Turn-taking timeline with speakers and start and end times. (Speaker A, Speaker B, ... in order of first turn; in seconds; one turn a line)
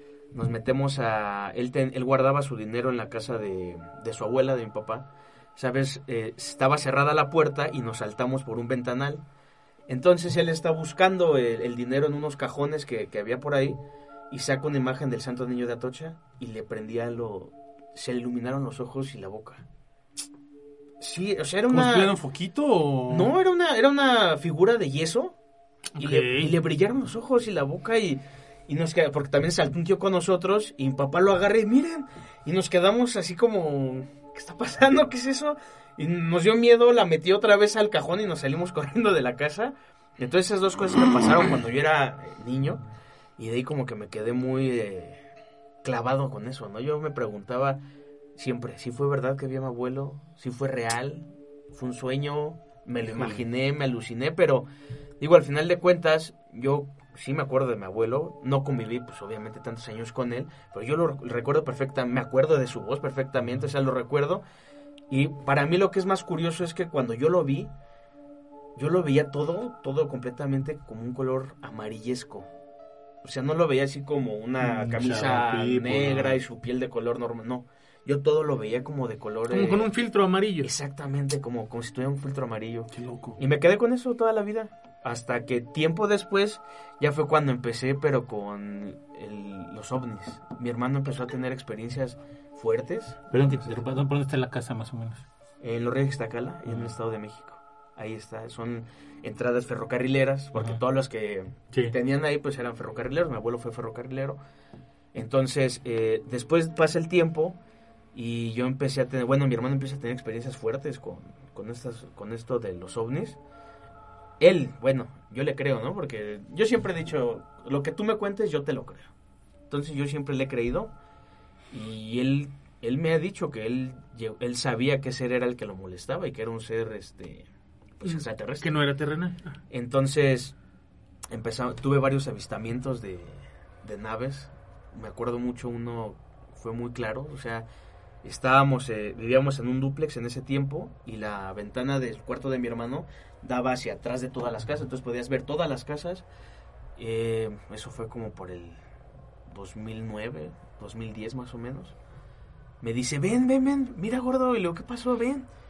Speaker A: 0.3-9.2
Speaker A: 9.9-13.8
Speaker A: 14.3-19.6
Speaker A: 21.0-22.2
Speaker B: 21.7-23.3
Speaker A: 23.1-25.4
Speaker C: 25.9-26.5
Speaker A: 25.9-42.8
Speaker A: 43.4-45.2
Speaker A: 45.8-47.8
Speaker A: 48.4-54.7
Speaker D: 53.1-53.4
Speaker A: 55.2-64.4
Speaker A: 65.1-67.7
Speaker A: 68.7-72.5
Speaker A: 73.2-79.9
Speaker D: 74.6-76.4
Speaker C: 79.5-80.7
Speaker A: 80.6-93.2
Speaker B: 82.9-83.4
Speaker D: 93.3-95.2
Speaker A: 95.6-104.4
Speaker A: 105.1-107.6
Speaker A: 108.1-113.4
Speaker A: 114.4-119.1
Speaker A: 119.7-120.9
Speaker A: 121.7-127.5
Speaker A: 128.0-128.7
Speaker C: 128.0-129.6
Speaker A: 129.7-130.5
Speaker A: 131.3-137.7
Speaker A: 138.2-146.2
Speaker A: 147.0-148.8
Speaker A: 149.5-151.9
Speaker A: 152.8-155.5